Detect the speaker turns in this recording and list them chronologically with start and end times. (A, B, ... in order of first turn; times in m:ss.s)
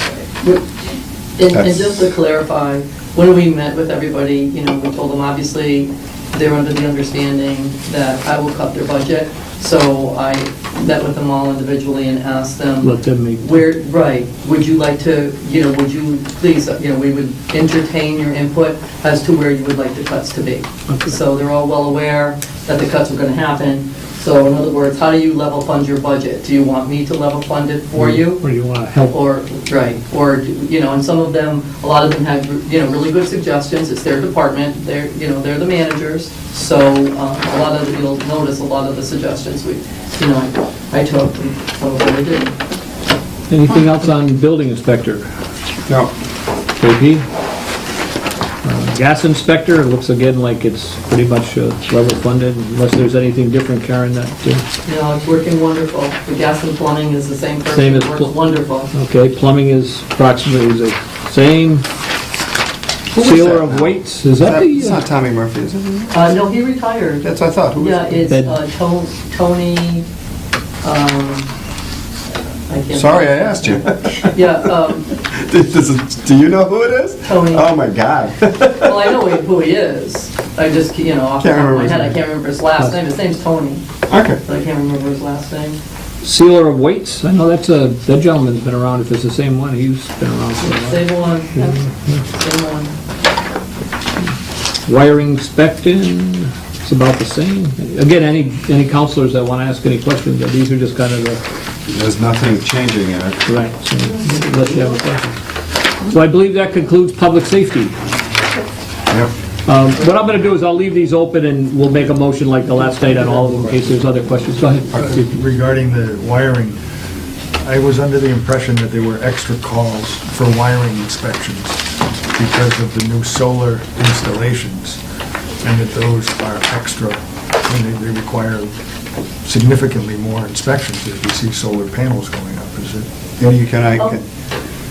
0:00.4-0:00.6 A
0:01.4-0:28.4 A
0:01.5-0:02.0 B
0:12.8-0:13.5 C
0:28.0-0:29.2 C
0:29.1-0:42.5 A
0:43.5-0:45.3 C
0:46.8-0:47.2 C
0:48.6-0:54.6 C
0:54.8-0:58.9 A
0:57.7-0:58.3 C
0:58.9-1:01.8 C
1:03.1-1:06.3 B
1:03.1-1:05.0 C
1:06.1-1:10.0 A
1:07.2-1:08.2 B
1:08.3-1:08.6 C
1:10.8-1:11.5 A
1:12.7-1:15.1 A
1:12.9-1:14.5 B
1:15.1-1:19.1 B
1:17.2-1:17.7 A
1:18.8-1:23.8 A
1:21.4-1:22.2 B
1:24.1-1:24.4 B
1:24.4-1:25.8 A
1:26.2-1:31.0 C
1:30.6-1:32.9 A
1:31.6-1:32.2 C
1:34.8-1:41.4 C
1:41.9-1:43.5 B
1:43.4-1:45.4 C
1:44.2-1:44.8 A
1:46.0-1:47.9 C
1:49.6-1:55.4 C
1:55.2-1:56.8 D
1:57.6-2:01.8 D
2:02.3-2:05.0 D
2:05.6-2:08.7 D
2:09.4-2:13.1 D
2:13.4-2:14.2 B